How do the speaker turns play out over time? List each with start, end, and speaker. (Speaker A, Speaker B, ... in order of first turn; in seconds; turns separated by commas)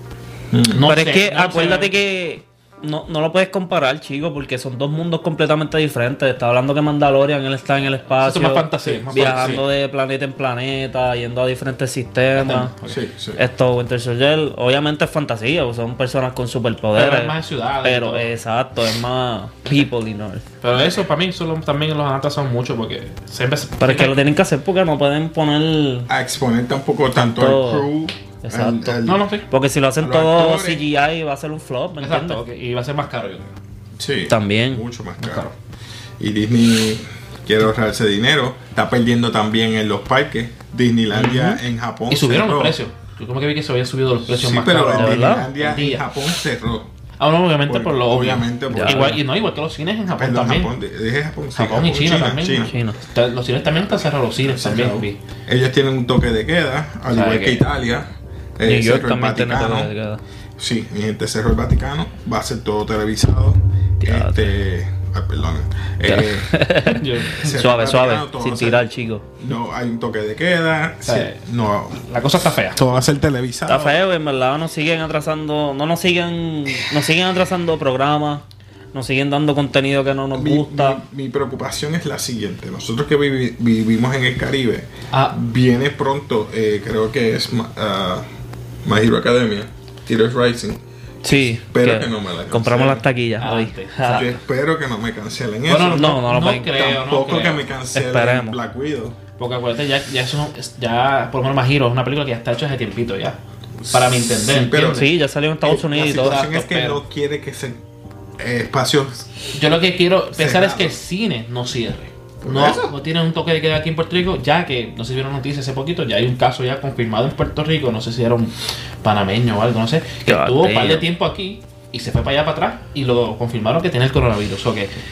Speaker A: 0.5-0.8, Speaker B: 0.7-1.9, Speaker C: 0.8-12.7, Speaker B: 8.2-9.6, Speaker A: 8.9-9.6, Speaker B: 12.3-13.0, Speaker A: 12.9-13.4, Speaker C: 13.4-20.4, Speaker B: 16.9-18.3, Speaker B: 20.6-24.2, Speaker C: 23.8-26.1, Speaker A: 26.1-29.3, Speaker C: 27.4-27.9, Speaker C: 28.4-32.4, Speaker B: 29.0-29.5, Speaker A: 30.0-30.8, Speaker B: 32.0-33.6, Speaker A: 34.0-35.5, Speaker C: 34.3-34.8, Speaker B: 35.2-35.5, Speaker A: 36.2-42.8, Speaker B: 41.1-46.1, Speaker A: 44.3-46.9, Speaker C: 44.9-45.5, Speaker B: 47.2-50.7, Speaker A: 47.6-49.2, Speaker C: 48.7-49.2, Speaker A: 50.1-52.7, Speaker B: 51.5-55.2, Speaker C: 52.6-53.0, Speaker A: 54.4-59.9, Speaker B: 57.1-57.6, Speaker C: 58.6-60.2, Speaker A: 60.6-66.5, Speaker C: 64.0-64.5, Speaker C: 66.0-69.2, Speaker B: 66.8-67.6, Speaker A: 67.3-72.0, Speaker B: 71.0-71.4, Speaker B: 72.0-72.8, Speaker A: 72.7-74.0, Speaker C: 73.7-81.0, Speaker A: 80.3-88.2, Speaker B: 85.1-85.4, Speaker A: 88.8-93.0, Speaker C: 91.2-94.3, Speaker B: 93.4-94.4, Speaker A: 94.1-99.2, Speaker B: 95.7-97.6, Speaker C: 95.8-96.9, Speaker C: 97.9-98.6, Speaker B: 99.4-103.4, Speaker A: 103.8-105.1, Speaker B: 103.9-105.1, Speaker C: 104.9-106.4, Speaker A: 105.6-107.8, Speaker B: 106.0-107.0, Speaker A: 108.4-109.3, Speaker B: 109.5-124.9, Speaker A: 110.3-111.0, Speaker A: 112.4-112.9, Speaker C: 120.2-121.0